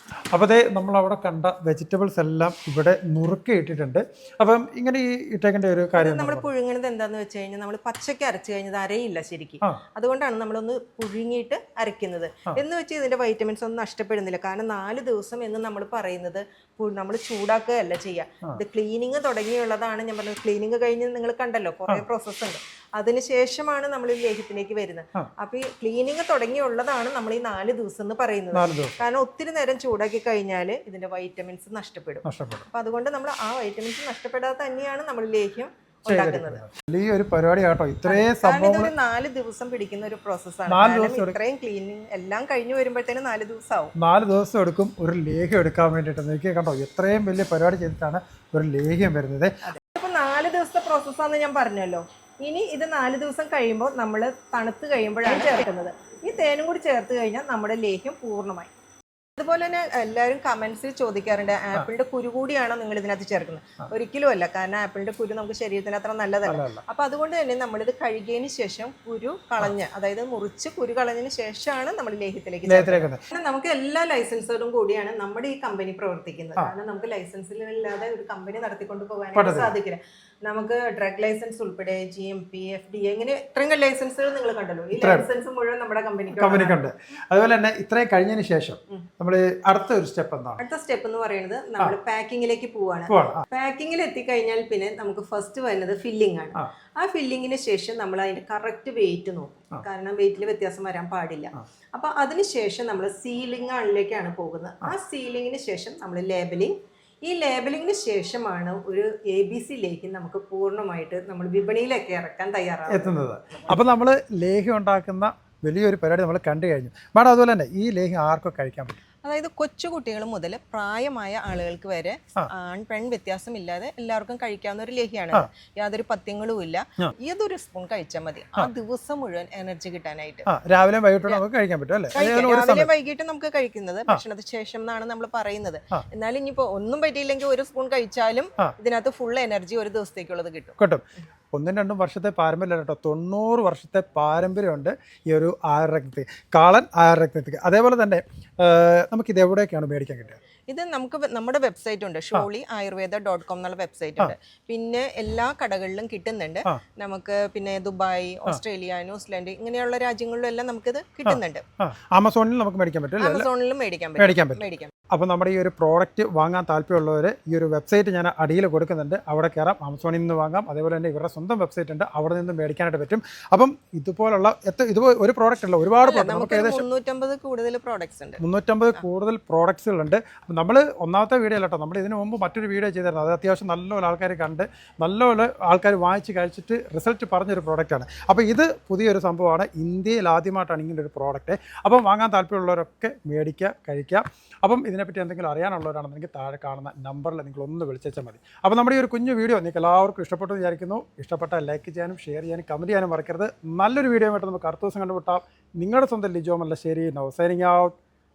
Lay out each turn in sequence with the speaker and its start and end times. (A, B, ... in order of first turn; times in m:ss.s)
0:00.3-0:06.5 A
0:06.0-0:36.6 B
0:28.5-0:29.0 A
0:32.2-0:32.7 A
0:36.1-0:38.9 A
0:38.1-0:43.9 B
0:40.7-0:41.4 A
0:44.0-0:49.6 A
0:49.6-0:58.7 B
0:59.4-1:26.8 B
1:06.4-1:06.8 A
1:12.7-1:13.2 A
1:19.3-1:19.7 A
1:24.9-1:25.2 A
1:26.3-1:30.6 A
1:30.6-1:53.2 B
1:33.1-1:33.4 A
1:52.9-1:59.0 A
1:59.2-2:10.5 B
2:10.5-2:12.9 A
2:12.1-2:20.8 B
2:21.5-2:30.4 A
2:30.7-2:41.6 B
2:41.3-2:43.5 A
2:43.2-2:44.9 B
2:44.2-2:56.8 A
2:56.0-2:58.4 B
2:58.4-3:27.9 A